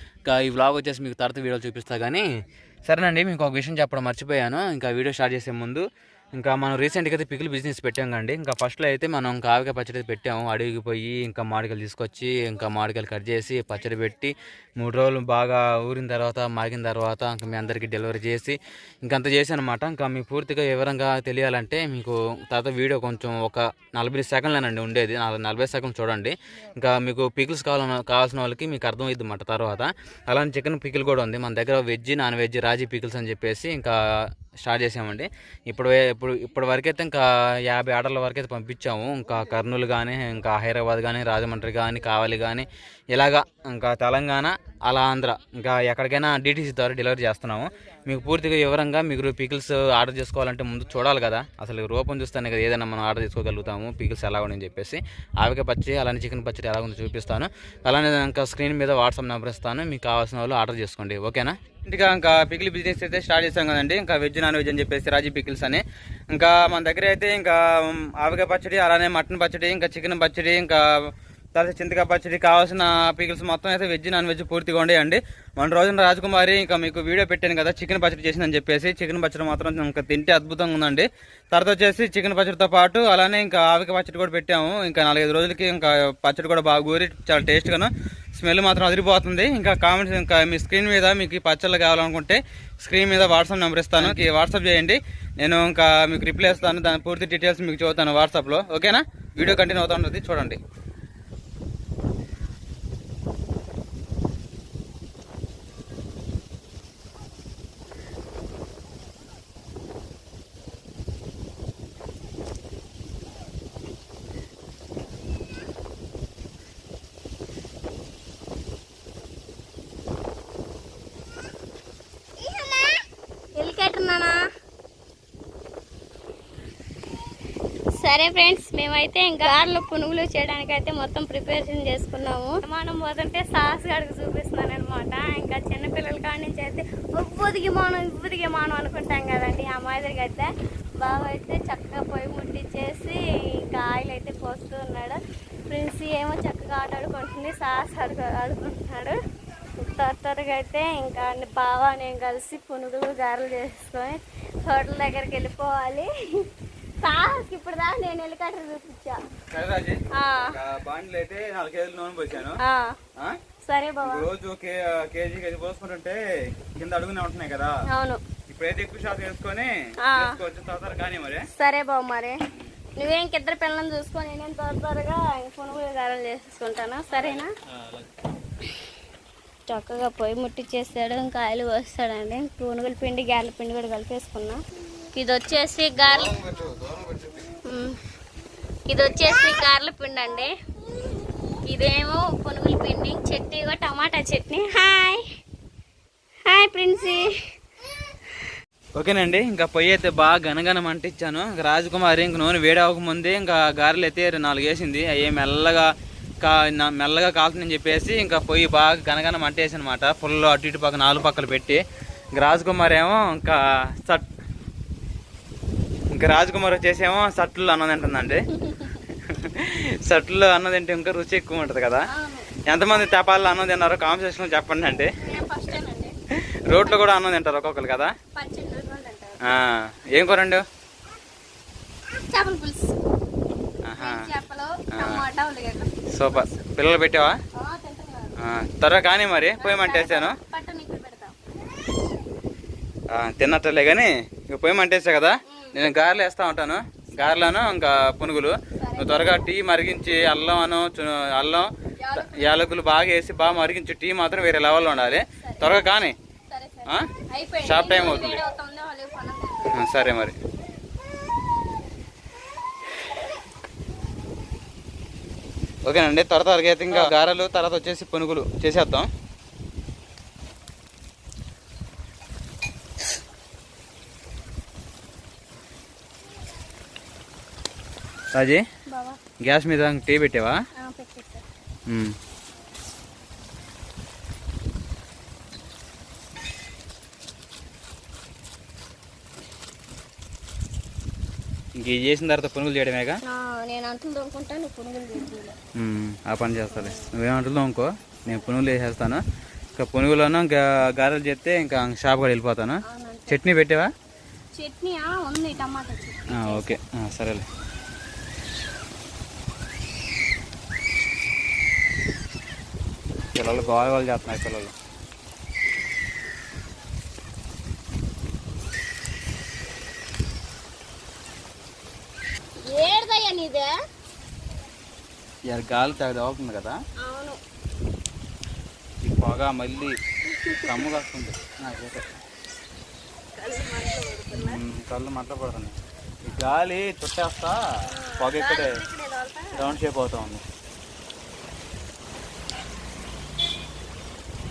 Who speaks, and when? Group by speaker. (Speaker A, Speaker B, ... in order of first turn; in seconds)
Speaker A: 0.2-2.2, 2.9-5.8, 6.4-100.6, 159.5-162.6, 164.0-167.8, 168.5-171.5, 177.1-178.1, 186.1-187.4, 199.0-205.9, 206.4-211.8, 212.3-214.2, 216.1-218.4, 219.1-222.1, 222.7-225.1, 226.4-228.1, 229.4-230.6, 233.8-234.2, 234.9-235.2, 236.1-237.4, 238.4-240.4, 243.1-256.1, 257.6-258.4, 259.7-260.4, 265.9-269.1, 278.3-278.6, 279.4-280.6, 281.9-282.1, 291.8-293.2, 295.8-299.2, 299.8-303.9, 306.3-307.4, 313.3-314.7, 325.5-326.8, 329.0-329.9, 330.6-332.1, 334.3-337.6, 338.2-338.8, 339.5-340.4
Speaker B: 122.4-123.0, 123.6-124.4, 128.0-149.2, 149.8-156.5, 157.0-159.2, 160.1-160.6, 162.4-163.0, 163.7-164.3, 167.9-168.2, 170.0-170.4, 171.6-172.4, 173.0-177.5, 179.7-184.6, 185.1-186.5, 187.5-188.0, 188.9-190.5, 191.7-195.2, 196.5-197.4, 218.6-218.9, 222.1-222.5, 225.2-226.2, 226.7-227.1, 228.4-229.4, 232.1-233.0, 234.0-236.7, 237.6-238.4, 239.6-241.4, 245.5-245.8, 247.2-247.6, 248.8-249.5, 252.0-252.7, 255.4-255.9, 256.5-259.9, 278.9-279.2, 280.8-281.4, 293.2-295.6, 296.7-297.1, 302.9-303.4, 304.6-306.8, 322.6-323.7, 327.0-327.4, 330.3-330.9, 333.4-334.6, 337.9-339.8